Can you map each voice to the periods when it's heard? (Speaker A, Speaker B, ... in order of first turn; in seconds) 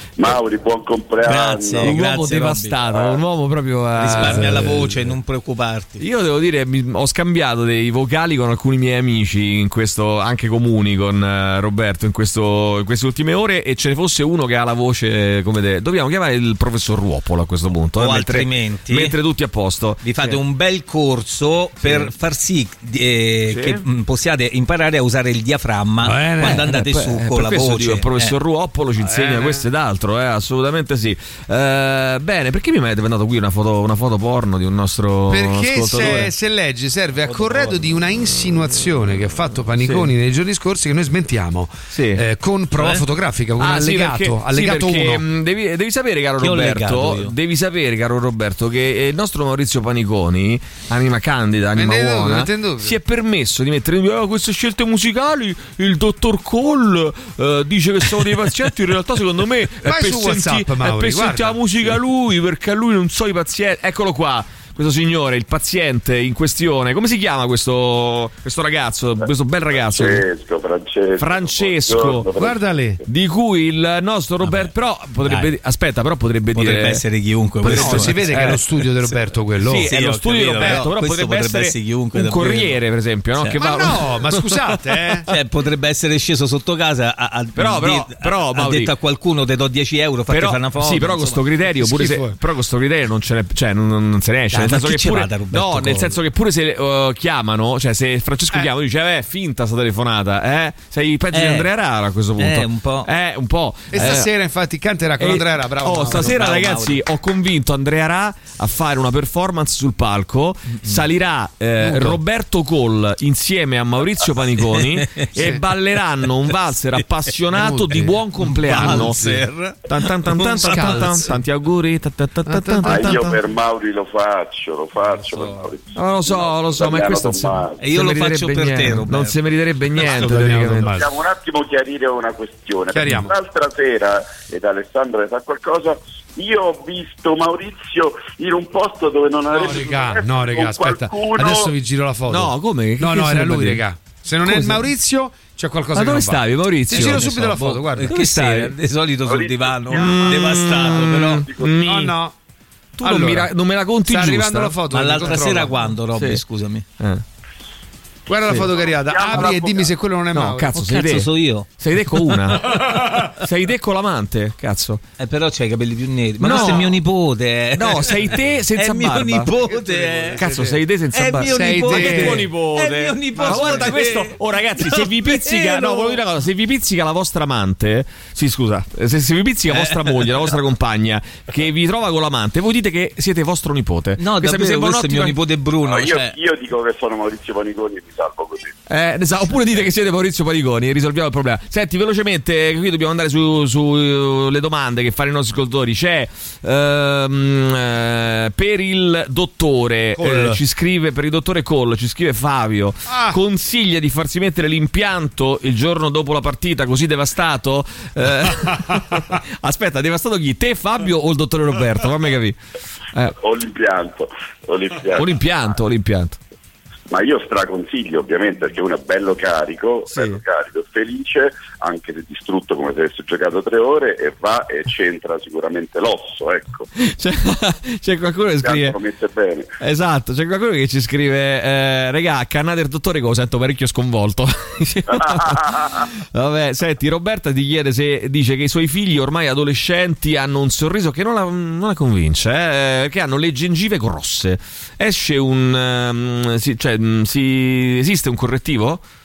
Speaker A: 0.2-1.9, 69.7-72.6, 122.8-127.8, 130.9-141.7, 149.2-150.8, 151.3-151.7, 158.7-159.9, 185.8-188.7, 213.4-215.4, 217.1-226.9, 228.6-229.7, 235.1-235.9
Speaker B: 1.2-2.9, 4.0-6.0, 18.0-19.1, 20.0-28.3, 37.3-37.8, 46.4-47.3, 74.4-74.7, 75.2-75.5, 76.5-78.6, 79.8-82.8, 85.3-91.4, 94.5-96.2, 101.3-101.7, 102.4-103.1, 106.1-107.0, 114.6-115.3, 118.4-119.8, 120.4-121.0, 127.8-129.3, 146.9-151.5, 154.9-156.8, 160.7-161.7, 165.2-170.4, 171.1-176.2, 179.7-180.4, 184.2-186.3
Speaker C: 1.8-4.9, 6.0-20.4, 21.8-22.1, 23.5-23.8, 26.4-36.3, 39.8-40.1, 41.9-42.2, 43.6-70.2, 71.2-72.3, 73.0-77.0, 77.6-78.6, 79.6-84.7, 87.5-88.9, 90.3-104.3, 105.2-119.3, 119.8-123.4, 125.9-131.0, 142.3-143.8, 144.4-144.9, 145.9-148.7, 149.9-152.2, 153.0-154.8, 156.2-156.4, 160.3-165.0, 166.4-167.0, 167.7-169.5, 170.3-185.4, 188.9-212.6, 215.1-216.4, 220.1-220.4, 227.0-228.9, 229.8-249.0
Speaker D: 4.2-4.7, 26.0-26.6, 29.0-29.6, 35.3-45.2, 51.8-53.0, 59.8-61.6, 72.3-73.0, 77.6-79.9, 83.6-85.3, 91.8-92.4, 103.9-106.5, 111.8-112.2, 115.3-115.6, 117.5-119.4, 120.4-121.4, 122.5-123.3, 130.0-131.1, 132.9-133.3, 139.5-148.1, 151.8-152.3, 153.0-153.5, 154.1-155.7, 158.3-160.7, 169.6-170.8, 171.4-172.5, 173.3-173.9, 200.2-200.6, 203.1-203.4